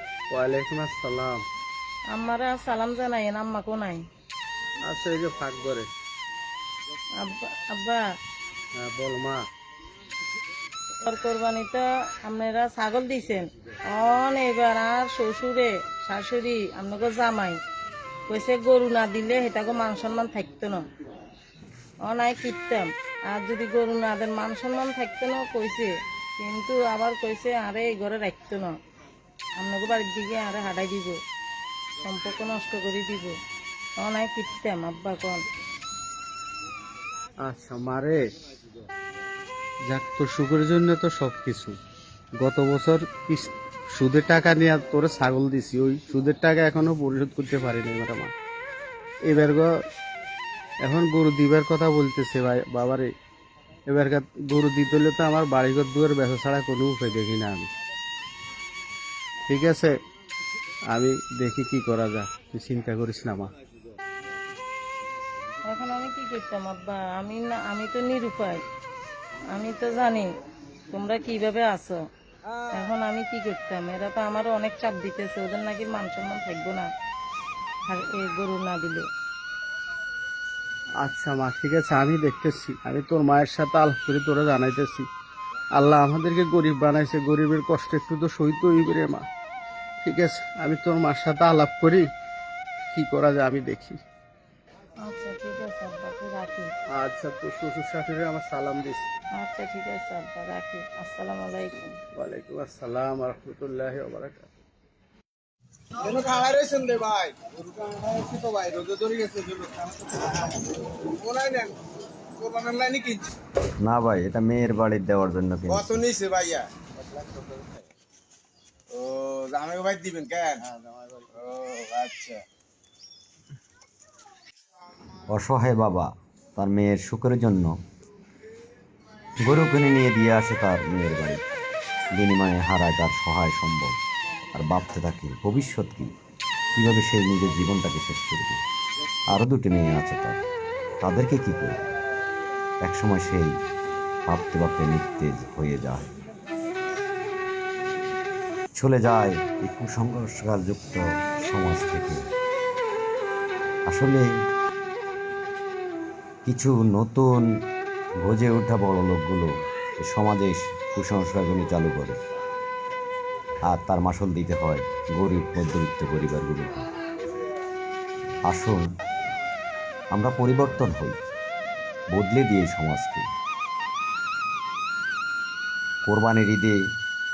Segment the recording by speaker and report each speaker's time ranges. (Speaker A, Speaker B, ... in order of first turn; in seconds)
Speaker A: 0.3-1.4, 4.8-5.9, 8.8-9.4, 37.4-38.2, 39.9-41.7, 42.4-48.3, 49.2-49.7, 50.8-53.1, 53.9-57.7, 59.5-59.9, 60.9-63.5, 81.0-85.1, 85.7-89.2, 90.0-92.0, 92.9-94.0, 96.9-99.1, 102.1-104.5, 117.0-117.8, 120.6-121.3
Speaker B: 2.1-4.0, 7.2-8.0, 11.0-17.6, 18.3-20.8, 22.0-28.8, 29.6-31.1, 32.0-33.3, 34.0-35.4, 65.6-68.6, 69.5-70.3, 70.9-72.0, 72.7-76.9, 77.9-79.0, 95.0-96.7, 99.3-101.9
Speaker C: 106.0-111.8, 112.4-113.3, 115.7-116.7, 118.9-120.6, 121.4-122.4
Speaker D: 113.8-116.0, 125.3-127.7, 129.4-131.4, 132.1-134.0, 134.5-136.1, 136.8-138.6, 139.3-140.4, 141.0-141.8, 142.8-143.5, 144.3-146.1, 148.7-152.2, 153.9-154.3, 156.4-157.4, 158.2-162.2, 163.7-166.8, 168.5-168.8, 170.1-171.2, 172.1-173.2, 176.1-176.8